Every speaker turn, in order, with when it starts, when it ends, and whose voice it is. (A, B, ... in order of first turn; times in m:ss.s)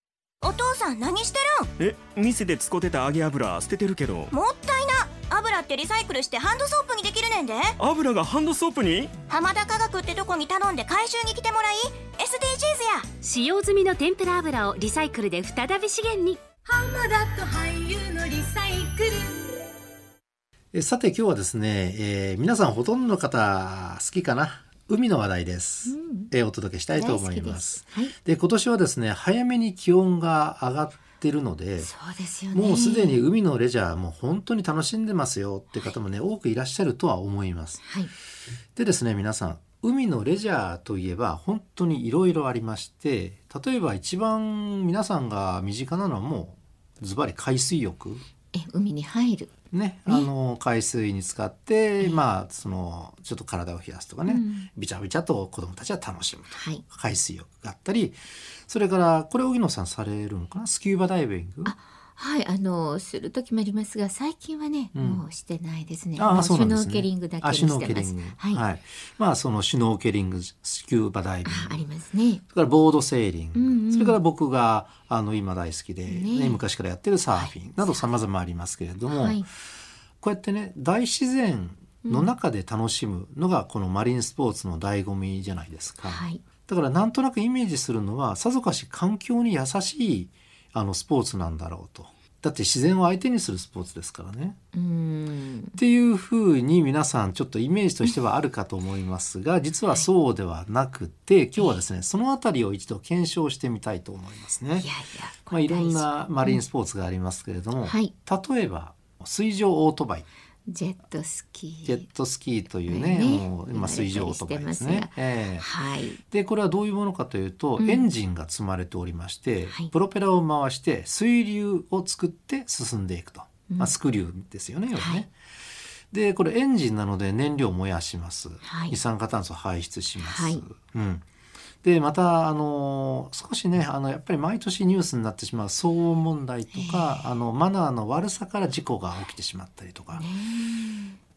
0:00.4-0:01.7 A
0:01.8-0:04.3 B
0:04.3-0:07.7 A
0:07.8-0:09.1 B
0:09.3-0:13.1 A
0:13.1-0:16.4 C
0:16.7-0:19.5 A
0:20.7-0:31.9 D
0:25.9-0:26.3 E
0:27.0-0:28.1 E
0:31.8-0:33.2 E
0:32.5-0:37.8 D
0:37.8-0:38.1 E
0:38.8-0:48.2 D
0:48.5-0:49.5 E
0:49.7-1:01.7 D
0:54.3-0:54.7 E
0:56.5-0:56.8 E
1:01.6-1:08.6 E
1:04.9-1:05.2 D
1:06.2-1:11.8 D
1:11.4-1:12.4 E
1:12.5-1:19.4 D
1:13.5-1:14.2 E
1:16.0-1:16.6 E
1:17.3-1:18.0 E
1:19.1-1:19.4 E
1:20.2-1:34.6 D
1:22.0-1:22.3 E
1:26.0-1:26.4 E
1:34.7-1:35.8 E
1:35.8-1:44.9 D
1:44.8-1:46.6 E
1:45.5-1:50.3 D
1:47.8-1:48.1 E
1:50.7-1:52.0 E
1:51.8-1:55.7 D
1:52.8-1:56.2 E
1:56.3-2:05.3 D
1:57.8-1:58.1 E
2:03.7-2:03.9 E
2:04.9-2:05.2 E
2:06.1-2:11.2 D
2:08.6-2:09.0 E
2:10.2-2:10.6 E
2:11.8-2:20.2 D
2:16.7-2:17.2 E
2:20.1-2:21.2 E